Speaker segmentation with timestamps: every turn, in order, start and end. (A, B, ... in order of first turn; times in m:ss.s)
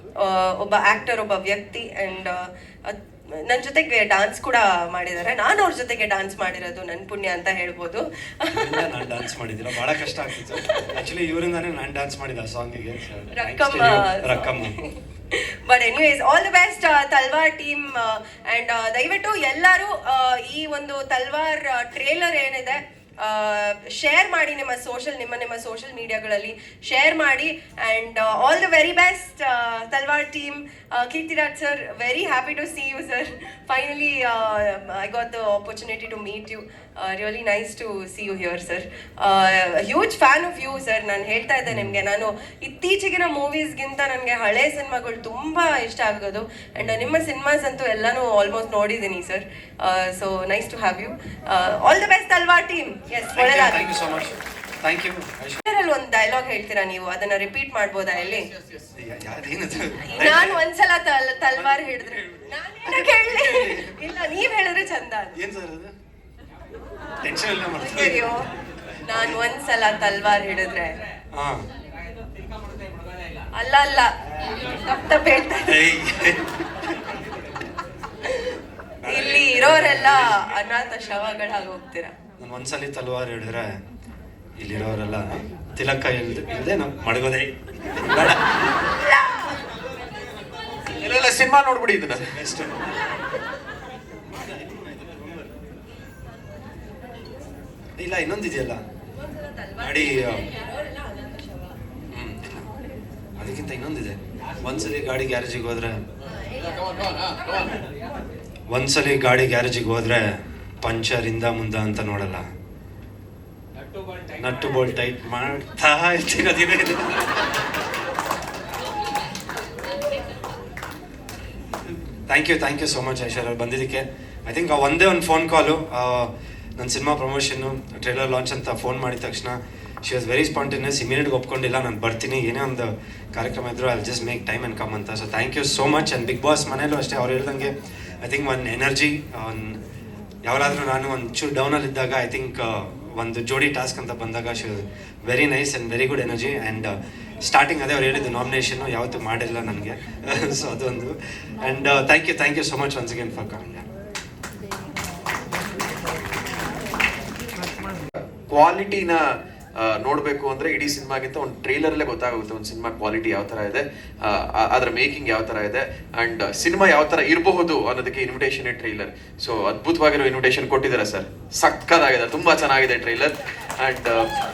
0:00.2-0:09.0 A
0:08.5-0:14.7 B
0:10.5-0:10.8 A
0:13.4-0:54.2 A
0:53.3-0:55.6 B
0:55.6-0:58.5 A
0:59.0-1:00.6 B
1:00.0-1:05.4 A
1:01.6-1:03.9 B
1:05.4-1:05.9 B
1:07.2-1:08.3 B
1:07.8-1:08.4 A
1:09.1-1:11.0 A
1:11.3-1:11.6 B
1:13.6-1:15.8 A
1:15.7-1:16.4 B
1:19.0-1:20.2 B
1:19.1-1:22.1 A
1:22.4-1:23.7 B
1:24.6-1:28.4 B
1:29.0-1:29.4 A
1:31.0-1:32.2 C
1:32.3-1:33.0 B
1:38.0-1:38.8 B
1:39.8-1:40.4 B
1:40.5-1:41.5 A
1:42.1-1:42.6 B
1:43.4-1:46.0 B
1:48.7-1:50.3 B
1:50.8-1:52.5 B
1:54.4-1:57.2 B
2:02.3-2:19.8 B
2:20.4-2:33.9 B
2:38.5-2:39.2 C
2:39.8-2:54.3 C